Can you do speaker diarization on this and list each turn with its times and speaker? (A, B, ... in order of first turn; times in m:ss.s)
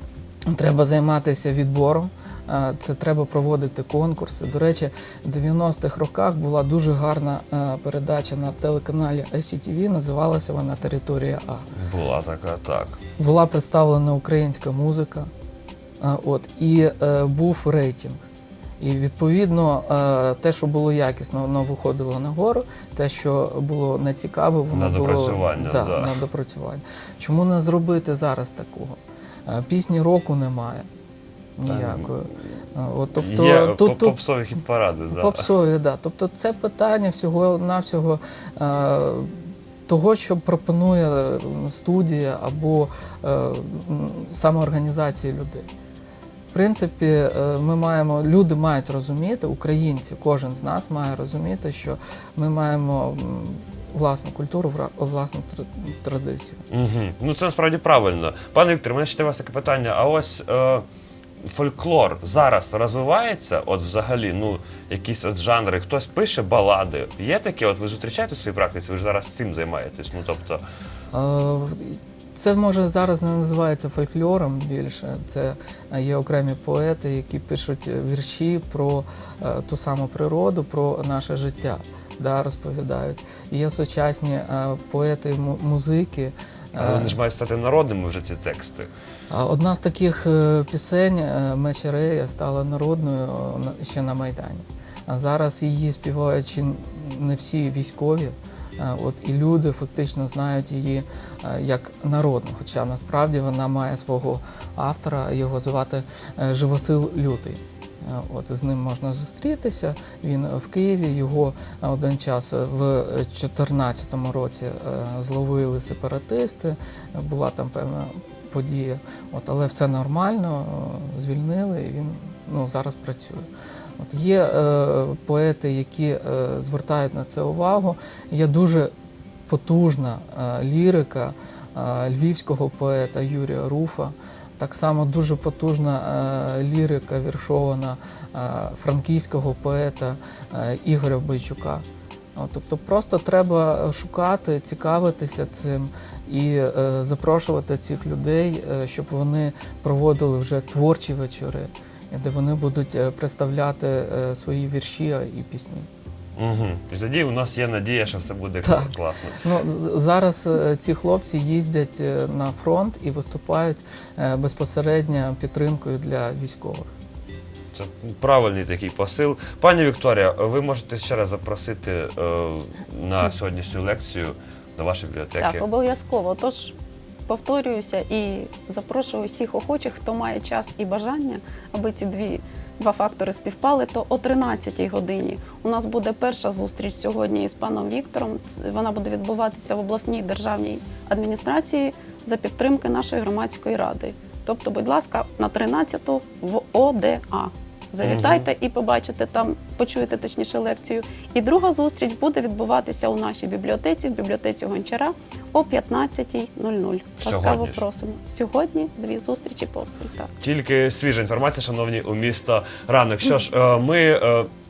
0:00.5-0:11.7 A
0:11.7-0:13.0 B
0:13.2-0:15.3 A
0:16.0-0:18.2 A
0:18.8-0:30.9 A
0:24.7-0:26.2 B
0:31.6-0:34.2 A
0:31.7-0:32.1 B
0:33.2-0:35.5 B
0:35.1-0:45.7 A
0:46.5-0:56.6 A
0:56.7-1:00.8 B
1:01.4-1:10.6 B
1:11.1-1:27.2 A
1:26.7-1:28.9 B
1:29.3-2:03.5 A
2:04.0-2:08.9 A
2:09.5-2:21.8 A
2:22.4-2:35.9 A
2:36.4-2:39.4 B
2:38.6-2:46.9 A
2:47.7-2:55.6 B
2:55.4-2:56.7 C
2:57.3-3:30.3 C
3:18.0-3:18.5 B
3:27.2-3:27.8 B
3:30.4-3:34.5 B